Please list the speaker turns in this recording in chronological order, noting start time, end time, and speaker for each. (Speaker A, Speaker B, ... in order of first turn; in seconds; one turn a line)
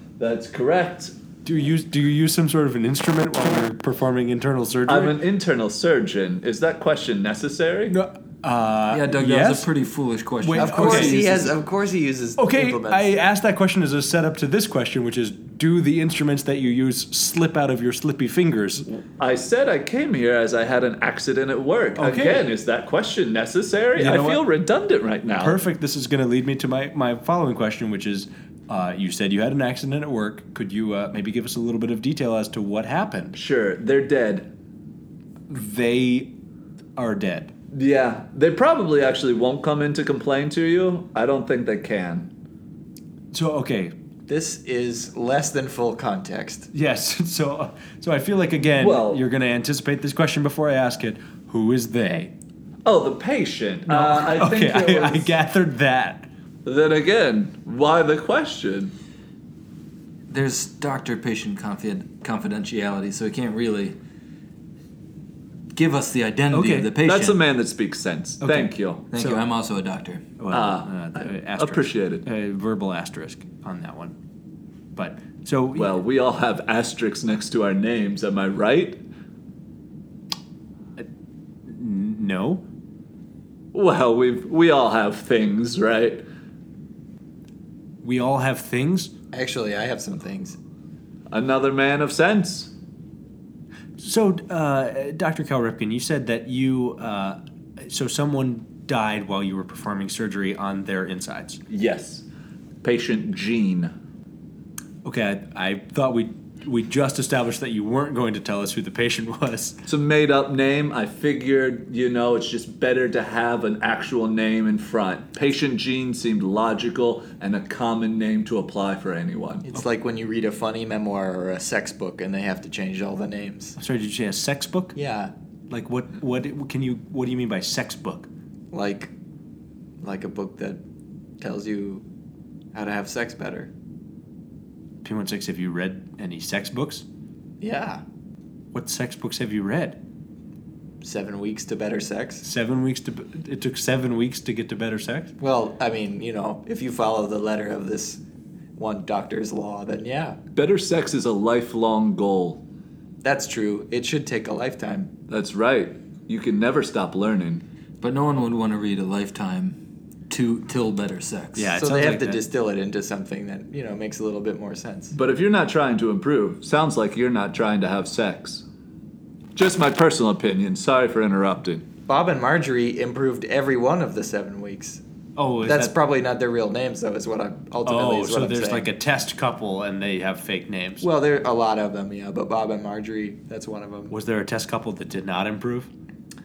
Speaker A: 0.2-1.1
Speaker B: 1.4-5.2
Speaker A: 4.9-8.0
Speaker B: 7.9-9.7
Speaker C: 8.9-11.5
Speaker B: 10.4-11.3
Speaker D: 10.6-13.1
Speaker B: 12.4-18.9
Speaker A: 18.9-25.6
Speaker B: 21.9-22.5
Speaker B: 23.9-24.4
Speaker B: 25.3-33.4
Speaker A: 33.3-34.5
Speaker B: 35.5-36.3
Speaker B: 37.0-37.5
Speaker A: 37.7-42.3
Speaker B: 43.3-43.9
Speaker D: 44.3-46.7
Speaker B: 46.7-52.3
Speaker A: 48.8-49.2
Speaker A: 52.8-55.3
Speaker B: 53.9-56.3
Speaker A: 56.6-58.9
Speaker C: 60.3-64.0
Speaker C: 65.7-67.4
Speaker B: 66.5-66.9
Speaker A: 67.0-69.0
Speaker B: 68.4-69.4
Speaker C: 69.1-70.3
Speaker B: 70.4-74.1
Speaker A: 70.5-72.2
Speaker B: 74.9-76.0
Speaker A: 75.7-79.0
Speaker B: 81.7-82.6
Speaker A: 83.7-86.2
Speaker B: 88.0-89.1
Speaker D: 89.3-90.6
Speaker A: 91.3-92.7
Speaker B: 94.0-101.6
Speaker A: 101.7-102.2
Speaker A: 102.8-103.9
Speaker B: 105.0-109.8
Speaker A: 109.9-119.6
Speaker D: 119.6-123.8
Speaker B: 123.8-125.0
Speaker D: 125.0-125.3
Speaker B: 125.7-128.3
Speaker D: 128.7-129.1
Speaker D: 130.0-130.8
Speaker D: 131.4-132.0
Speaker D: 132.7-133.7
Speaker B: 135.0-137.0
Speaker D: 137.6-138.0
Speaker B: 138.7-140.0
Speaker D: 141.0-142.4
Speaker B: 142.4-145.3
Speaker D: 145.4-148.2
Speaker D: 148.8-150.4
Speaker A: 150.5-152.6
Speaker D: 153.2-155.1
Speaker A: 155.3-157.6
Speaker C: 158.0-159.8
Speaker C: 160.3-161.7
Speaker B: 161.5-162.4
Speaker D: 161.7-165.1
Speaker A: 165.1-168.6
Speaker A: 169.6-171.8
Speaker D: 172.1-175.0
Speaker B: 175.3-175.9
Speaker D: 175.6-178.8
Speaker B: 177.8-181.1
Speaker D: 181.0-184.1
Speaker B: 184.1-185.9